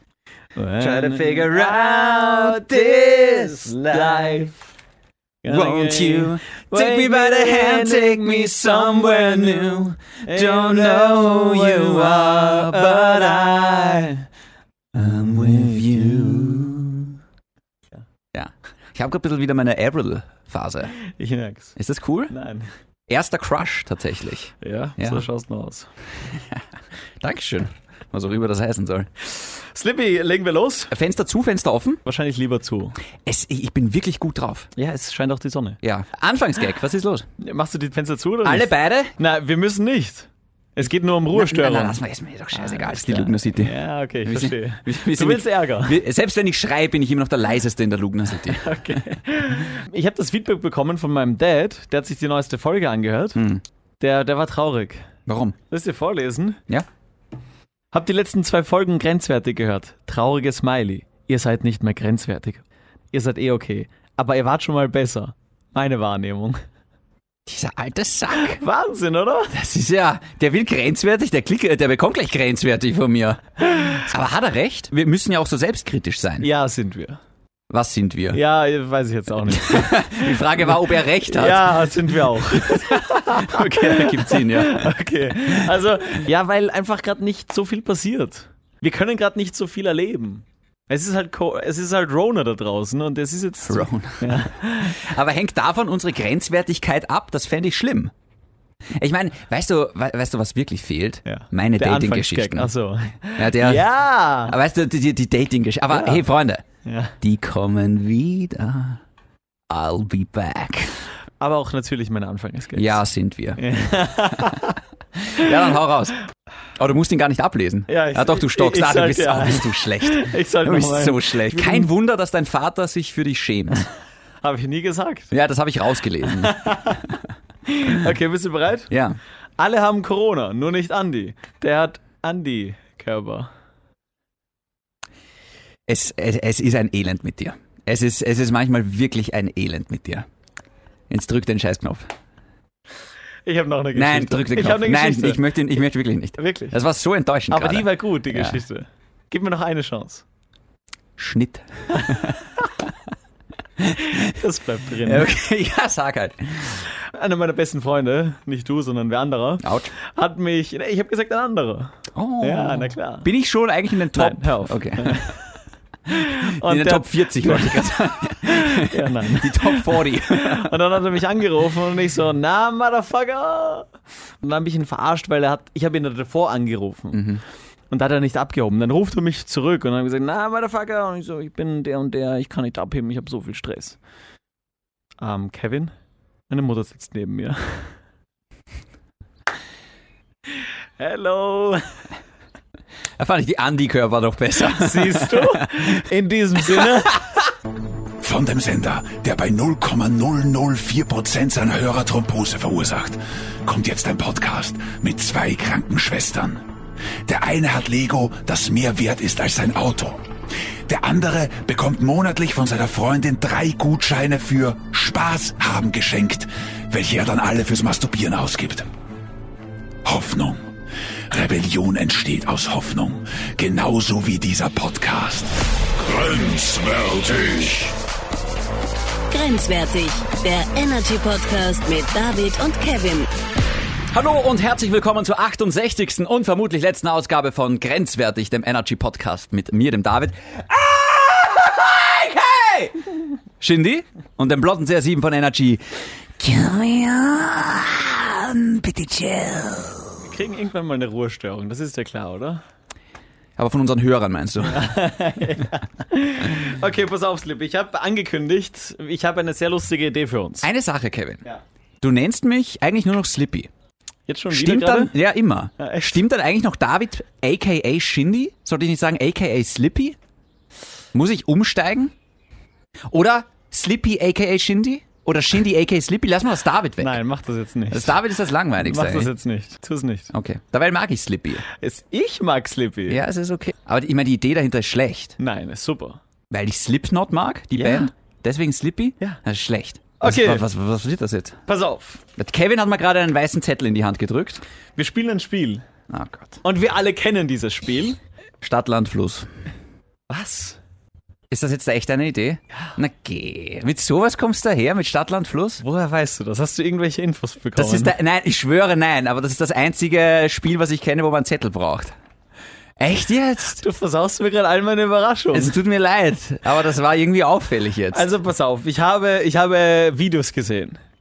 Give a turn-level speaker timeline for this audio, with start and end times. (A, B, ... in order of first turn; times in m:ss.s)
0:00.6-0:04.6 A
0:00.8-0:04.5 B
0:05.4-0:14.1 A
0:05.4-0:14.1 B
0:14.9-0:17.2 B
0:15.6-0:16.5 A
0:18.3-0:20.9 B
0:21.1-0:21.7 A
0:21.8-0:22.3 B
0:22.3-0:22.7 A
0:23.1-0:25.2 B
0:24.6-0:25.9 A
0:26.3-0:26.6 B
0:27.2-0:29.1 B
0:29.3-0:30.9 A
0:30.9-0:32.0 B
0:32.0-0:33.0 A
0:33.2-0:34.7 B
0:34.8-0:35.8 A
0:35.8-0:37.3 B
0:37.4-0:42.0 A
0:38.4-0:39.2 B
0:41.3-0:49.0 B
0:42.5-0:46.0 A
0:48.5-0:53.4 A
0:53.4-0:53.6 B
0:54.0-0:55.1 A
0:55.3-0:55.6 B
0:55.7-0:56.6 A
0:57.9-1:06.6 A
1:07.5-1:08.6 B
1:08.3-1:09.6 A
1:09.5-1:16.5 B
1:13.7-1:14.1 A
1:16.4-1:17.2 A
1:17.7-1:18.4 B
1:18.3-1:20.7 A
1:19.5-1:21.9 B
1:21.3-1:35.0 A
1:22.5-1:25.7 B
1:33.6-1:38.1 B
1:39.0-1:42.7 B
1:41.3-1:44.6 A
1:43.4-1:43.9 B
1:44.5-1:46.6 B
1:45.9-1:46.2 A
1:46.8-1:47.2 A
1:47.2-1:49.0 B
1:49.7-1:51.0 B
1:51.4-1:53.0 A
1:52.8-1:53.7 B
1:53.6-1:54.8 A
1:54.3-1:54.6 B
1:55.2-1:56.2 B
1:56.8-2:03.9 B
1:57.9-2:01.9 A
2:04.4-2:05.3 A
2:05.3-2:07.0 B
2:06.4-2:07.1 A
2:07.7-2:08.9 A
2:08.9-2:09.2 B
2:09.6-2:13.5 A
2:15.9-2:20.3 B
2:21.1-2:22.1 B
2:23.5-2:25.4 A
2:23.9-2:28.6 B
2:26.4-2:26.8 A
2:27.5-2:30.2 A
2:31.2-2:32.4 B
2:33.8-2:34.2 B
2:34.0-2:35.3 A
2:35.0-2:36.9 B
2:36.9-2:43.3 A
2:39.6-2:39.9 B
2:42.1-2:45.3 B
2:44.1-2:45.5 A
2:46.1-2:53.9 A
2:46.1-2:50.8 B
2:54.4-2:57.3 A
2:57.1-2:57.4 B
2:57.9-3:04.0 A
3:05.2-3:05.9 A
3:06.5-3:07.9 A
3:11.0-3:12.0 A
3:13.2-3:15.9 B
3:14.7-3:17.2 A
3:16.7-3:17.2 B
3:18.2-3:26.6 C
3:27.2-3:30.2 C
3:30.9-3:38.9 C
3:40.0-3:40.7 C
3:41.3-3:48.0 C
3:49.3-3:53.3 D
3:54.1-4:03.1 B
4:03.6-4:10.1 B
4:10.2-4:12.6 A
4:13.6-4:15.1 B
4:14.6-4:20.7 A
4:20.6-4:21.4 B
4:22.0-4:23.7 B
4:24.3-4:25.2 A
4:24.5-4:30.2 B
4:25.8-4:26.2 A
4:31.1-4:32.1 B
4:33.1-4:37.2 B
4:37.0-4:38.2 A
4:37.9-4:39.3 B
4:38.8-4:40.3 A
4:40.3-4:41.7 B
4:41.7-4:43.2 A
4:43.1-4:45.4 B
4:45.4-4:46.2 A
4:46.5-4:51.6 B
4:47.8-4:48.1 A
4:50.2-4:50.6 A
4:51.7-4:52.2 A
4:52.4-4:54.6 B
4:55.0-4:55.8 A
4:56.1-4:56.6 B
4:56.6-4:58.2 A
4:58.6-4:59.5 B
5:00.3-5:00.8 A
5:01.5-5:05.8 B
5:05.8-5:08.2 A
5:07.8-5:12.2 B
5:13.0-5:13.8 B
5:13.8-5:15.8 A
5:15.5-5:18.3 B
5:18.1-5:21.0 A